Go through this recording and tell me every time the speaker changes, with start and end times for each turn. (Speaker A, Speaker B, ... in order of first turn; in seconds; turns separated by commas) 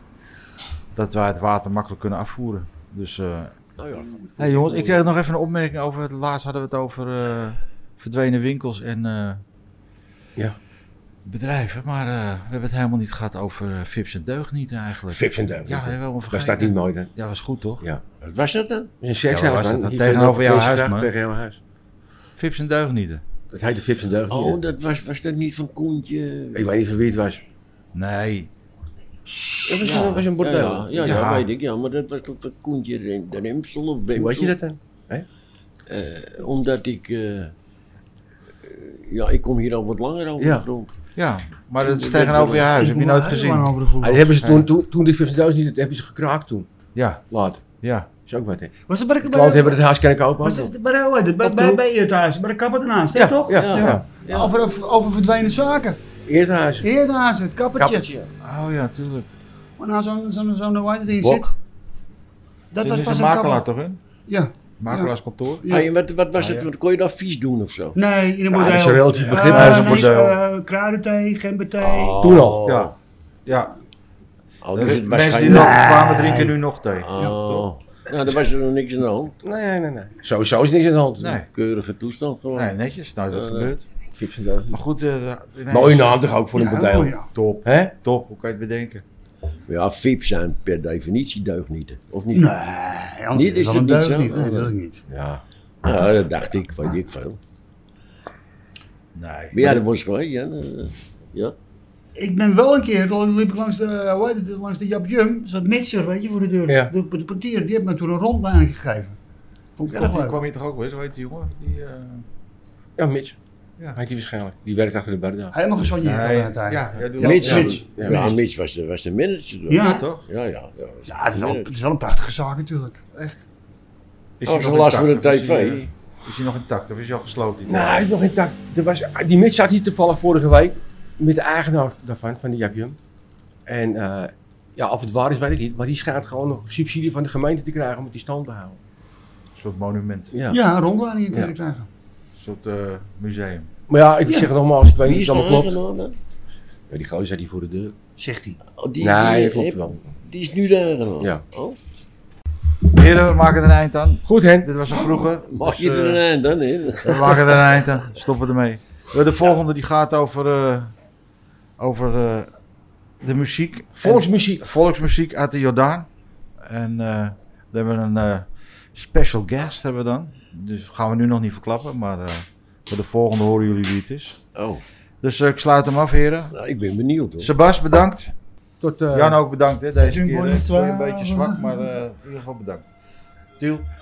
Speaker A: 0.9-3.5, Speaker B: 3.8-4.2, Speaker C: 4.1-5.1, Speaker A: 4.4-9.4, Speaker A: 11.2-17.8, Speaker C: 15.1-17.1, Speaker B: 18.2-18.9, Speaker C: 19.0-21.6, Speaker A: 19.3-21.1, Speaker A: 22.4-23.2, Speaker C: 23.5-24.6, Speaker B: 24.3-26.7, Speaker C: 26.5-27.4, Speaker A: 27.9-28.5, Speaker B: 29.6-34.6, Speaker C: 29.7-31.2, Speaker A: 29.9-30.2, Speaker A: 31.0-31.4, Speaker C: 34.1-35.2, Speaker B: 35.9-37.5, Speaker B: 38.6-40.9, Speaker C: 40.4-40.7, Speaker A: 41.1-43.8, Speaker B: 41.8-42.8, Speaker D: 42.7-44.4, Speaker C: 44.0-46.7, Speaker A: 44.4-44.7, Speaker A: 46.9-47.2, Speaker C: 47.3-47.6, Speaker A: 47.8-48.1, Speaker C: 48.3-50.7, Speaker D: 48.9-49.8, Speaker D: 50.4-56.0, Speaker C: 51.4-51.8, Speaker A: 53.1-54.0, Speaker C: 53.5-54.0, Speaker B: 53.5-54.5, Speaker C: 56.2-56.9, Speaker D: 56.8-58.1, Speaker C: 57.7-58.3, Speaker A: 58.4-59.3, Speaker D: 59.8-61.5, Speaker C: 61.2-61.5, Speaker D: 62.7-63.6, Speaker A: 62.8-64.0, Speaker D: 64.3-65.9, Speaker A: 64.8-65.7, Speaker B: 65.7-68.0, Speaker A: 66.3-66.7, Speaker D: 68.0-72.5, Speaker C: 68.5-70.1, Speaker A: 69.3-70.3, Speaker B: 71.8-72.9, Speaker C: 72.2-72.7, Speaker A: 72.6-72.9, Speaker A: 73.4-73.8, Speaker B: 74.6-75.9, Speaker A: 74.7-77.7, Speaker D: 75.4-76.5, Speaker B: 77.0-79.4, Speaker C: 79.4-81.4, Speaker A: 81.2-81.5, Speaker B: 81.5-82.7, Speaker A: 82.5-83.8, Speaker B: 83.3-83.7, Speaker C: 84.1-84.8, Speaker A: 84.7-86.2, Speaker C: 85.7-87.9, Speaker D: 86.5-87.3, Speaker A: 87.3-89.0, Speaker B: 89.7-92.5, Speaker D: 92.3-95.0, Speaker B: 93.3-94.7, Speaker C: 95.1-95.4, Speaker B: 95.8-97.4, Speaker A: 99.1-99.6, Speaker B: 99.5-101.5, Speaker D: 102.2-109.2, Speaker C: 106.7-106.9, Speaker D: 109.8-110.4, Speaker A: 109.9-112.2, Speaker C: 113.0-113.4, Speaker C: 113.9-115.5, Speaker D: 115.5-118.4, Speaker A: 116.0-117.8, Speaker B: 117.2-121.7, Speaker C: 117.4-118.3, Speaker D: 119.7-120.0, Speaker A: 119.8-120.2, Speaker D: 121.1-123.0, Speaker A: 123.1-123.4, Speaker A: 124.4-128.1, Speaker B: 124.4-125.9, Speaker C: 127.7-133.0, Speaker C: 133.7-138.8, Speaker A: 139.6-140.3, Speaker C: 140.3-140.6, Speaker D: 140.5-141.9, Speaker A: 142.3-143.7, Speaker C: 143.9-145.8, Speaker B: 145.0-146.2, Speaker C: 146.9-147.9, Speaker D: 148.2-148.6, Speaker B: 148.8-151.8, Speaker C: 149.0-150.0, Speaker A: 152.9-156.2, Speaker C: 154.2-154.7, Speaker B: 155.5-157.6, Speaker A: 157.0-160.9, Speaker A: 161.8-162.5, Speaker A: 163.2-166.1, Speaker C: 163.9-164.7, Speaker A: 166.7-174.4, Speaker B: 174.5-174.8, Speaker A: 175.2-176.5, Speaker B: 176.5-177.5, Speaker A: 177.4-178.3, Speaker C: 178.8-179.4, Speaker A: 179.1-182.9, Speaker D: 179.9-181.9, Speaker A: 183.6-183.8